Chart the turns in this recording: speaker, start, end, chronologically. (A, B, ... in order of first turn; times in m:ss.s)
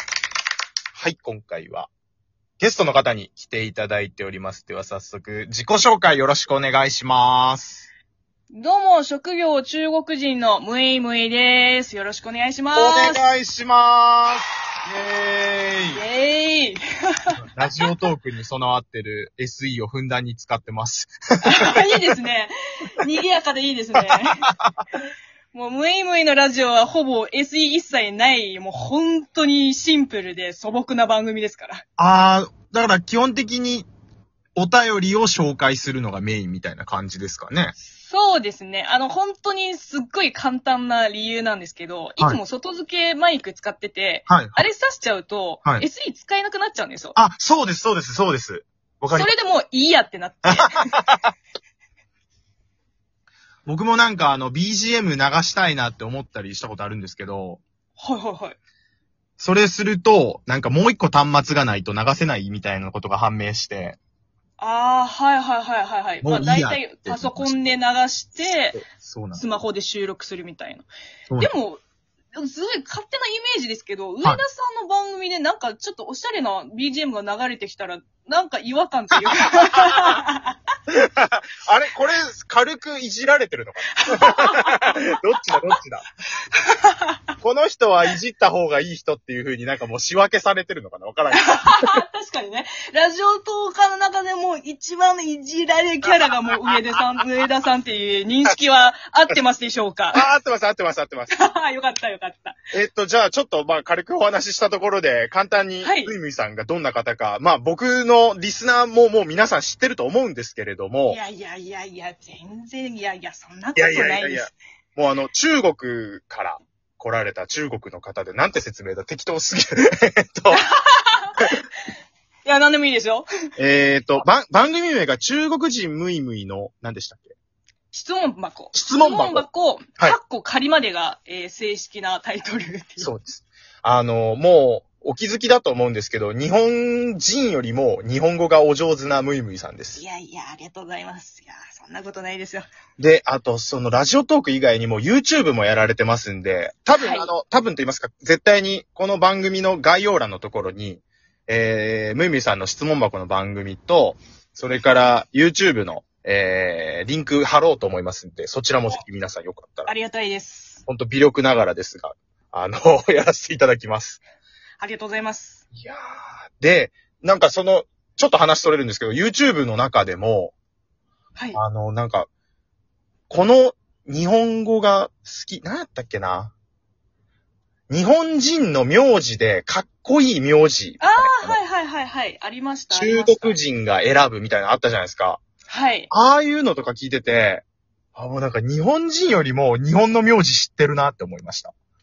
0:01.0-0:01.9 A
0:02.6-0:07.9 A
0:08.5-0:13.2 B
0:12.7-0:16.0 A
0:15.9-0:17.4 B
0:17.4-0:21.1 A
0:21.4-0:24.5 B
0:24.0-0:24.8 A
0:25.5-0:31.8 B
0:32.0-0:33.9 A
0:34.6-0:37.8 A
0:37.9-0:47.2 B
0:44.3-0:44.6 A
0:47.2-0:49.3 A
0:49.1-0:50.8 B
0:50.5-0:51.3 A
0:53.6-0:57.6 A
0:58.0-0:58.6 B
0:59.4-1:04.0 A
1:04.6-1:08.8 B
1:06.2-1:07.6 A
1:08.7-1:09.4 A
1:09.3-1:11.8 B
1:12.4-1:20.5 B
1:20.9-1:26.0 A
1:23.9-1:25.2 B
1:26.6-1:27.2 B
1:27.4-1:31.9 A
1:31.3-1:40.3 B
1:40.1-1:41.3 A
1:41.3-1:42.6 B
1:42.7-1:51.2 A
1:45.8-1:46.2 B
1:51.1-1:54.5 B
1:53.8-2:00.6 A
2:00.5-2:01.6 B
2:02.4-2:03.3 B
2:03.6-2:07.3 A
2:07.9-2:13.1 B
2:08.7-2:09.4 A
2:13.0-2:20.0 A
2:20.0-2:22.7 B
2:23.0-2:39.9 A
2:26.9-2:27.3 B
2:39.8-2:40.8 B
2:40.9-2:44.2 A
2:44.8-2:45.6 B
2:46.6-2:50.5 A
2:51.5-2:52.3 A
2:53.3-2:56.5 A
2:57.9-3:01.6 A
3:01.0-3:03.6 B
3:02.9-3:05.4 A
3:05.7-3:06.1 B
3:06.1-3:07.6 A
3:08.1-3:11.7 A